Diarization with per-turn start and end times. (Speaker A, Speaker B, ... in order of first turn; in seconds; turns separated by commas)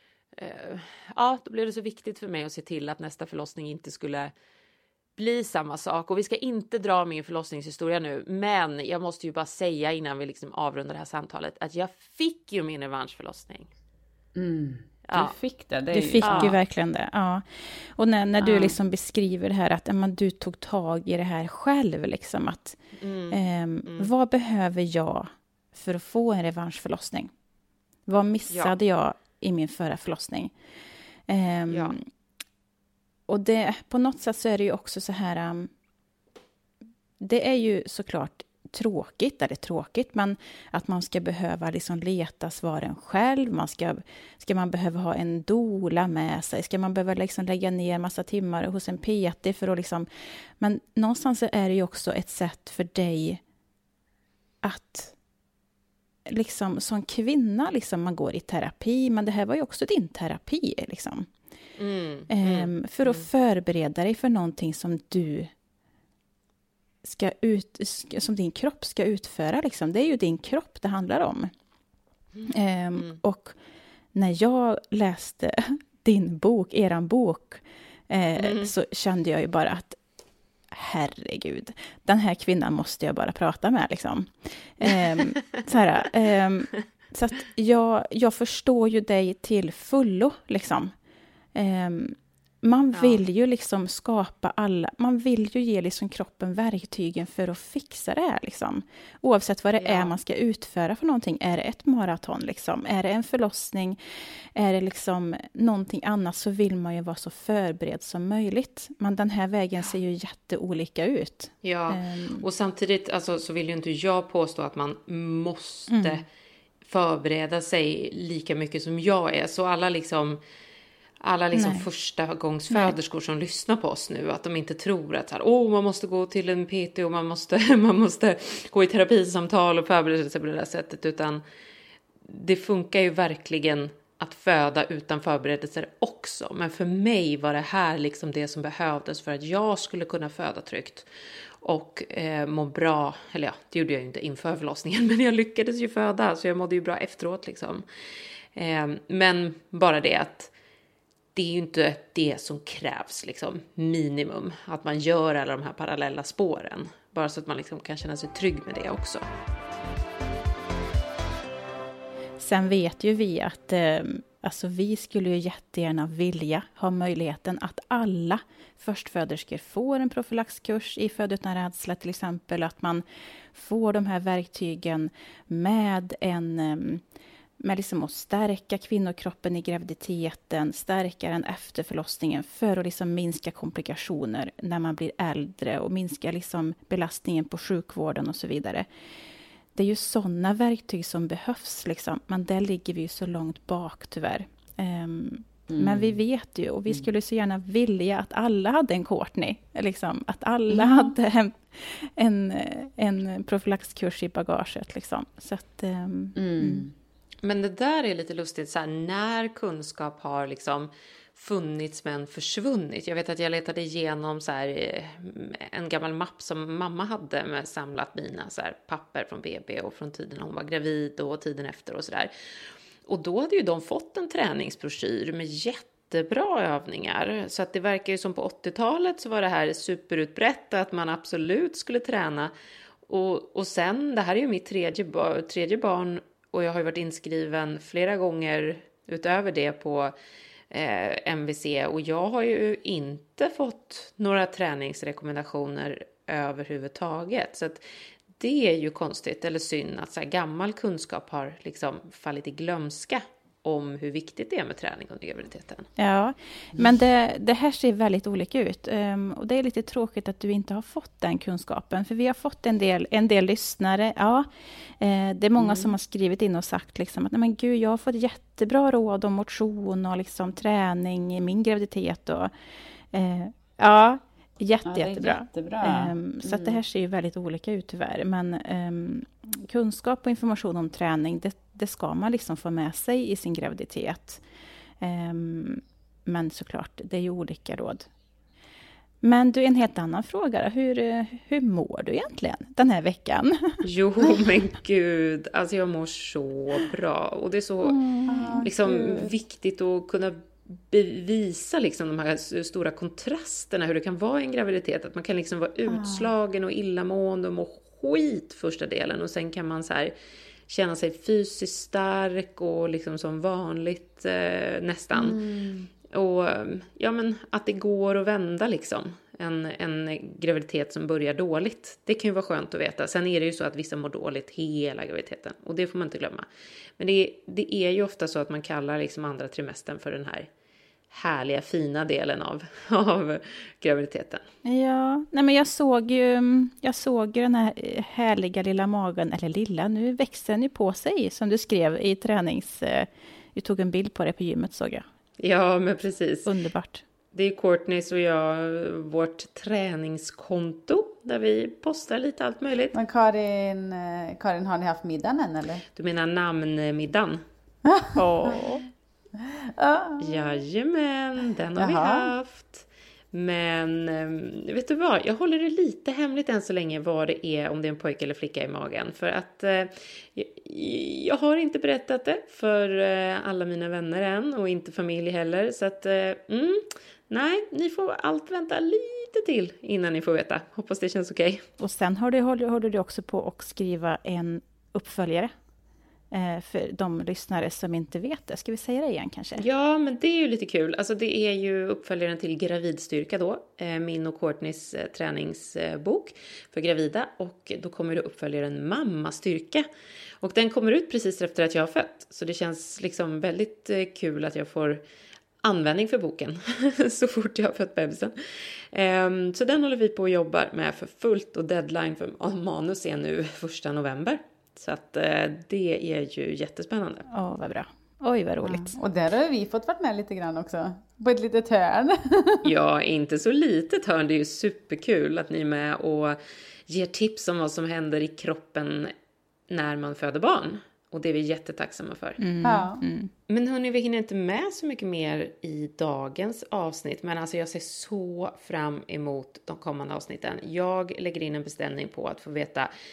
Speaker A: 0.3-4.3, Speaker A: 5.2-13.7, Speaker B: 14.3-16.5, Speaker A: 15.1-15.3, Speaker C: 15.9-22.8, Speaker A: 16.2-16.5, Speaker B: 18.4-18.8, Speaker A: 23.0-24.1, Speaker C: 23.3-27.3, Speaker C: 28.1-30.5, Speaker A: 28.5-28.8, Speaker C: 31.3-32.0, Speaker A: 31.7-31.9, Speaker C: 33.3-35.7, Speaker C: 37.2-50.1, Speaker C: 50.6-53.4, Speaker C: 54.6-55.1, Speaker C: 56.2-61.3, Speaker A: 61.8-63.2, Speaker C: 62.3-65.5, Speaker C: 67.0-71.5, Speaker A: 72.4-73.2, Speaker C: 72.5-73.6, Speaker C: 74.1-80.0, Speaker A: 78.4-78.7, Speaker C: 80.7-90.9, Speaker C: 91.5-104.0, Speaker A: 92.9-93.2, Speaker A: 99.8-100.2, Speaker C: 104.5-112.5, Speaker A: 111.6-116.2, Speaker C: 115.9-116.2, Speaker A: 116.8-120.4, Speaker A: 121.2-131.4, Speaker C: 121.5-121.8, Speaker A: 132.2-141.1, Speaker A: 141.6-147.8, Speaker A: 148.5-150.5, Speaker A: 151.3-159.2, Speaker C: 162.4-177.0, Speaker C: 177.6-188.9, Speaker C: 189.7-206.8, Speaker B: 195.7-196.2, Speaker B: 200.7-201.1, Speaker B: 206.3-206.9, Speaker A: 207.4-222.3, Speaker A: 223.1-232.5, Speaker A: 233.1-240.1, Speaker A: 240.7-247.8, Speaker A: 248.4-255.9, Speaker C: 256.0-264.5, Speaker C: 265.0-272.5, Speaker B: 265.6-265.9, Speaker C: 273.1-284.4, Speaker B: 274.8-276.8, Speaker C: 285.0-288.1, Speaker C: 289.2-293.8, Speaker A: 293.8-298.0, Speaker C: 297.8-298.6, Speaker B: 298.3-299.3, Speaker A: 298.6-310.1, Speaker B: 305.9-306.3, Speaker A: 310.7-315.4, Speaker B: 315.1-315.9, Speaker A: 316.1-326.4, Speaker A: 327.0-330.5, Speaker A: 331.1-334.4, Speaker C: 334.6-345.1, Speaker A: 345.4-346.5, Speaker C: 346.4-347.0, Speaker A: 347.3-352.9, Speaker B: 352.9-355.8, Speaker A: 355.9-357.4, Speaker B: 357.9-358.2, Speaker C: 358.1-358.8, Speaker B: 359.4-360.6, Speaker A: 360.2-381.6, Speaker B: 361.8-362.3, Speaker C: 381.8-385.5, Speaker C: 386.3-389.6, Speaker A: 389.6-399.9, Speaker A: 400.4-405.0, Speaker A: 405.6-408.3, Speaker A: 408.9-417.2, Speaker C: 417.3-418.9, Speaker B: 418.6-422.6, Speaker A: 422.6-429.1, Speaker A: 429.7-432.4, Speaker C: 432.4-433.3, Speaker B: 432.6-433.0, Speaker A: 433.5-442.9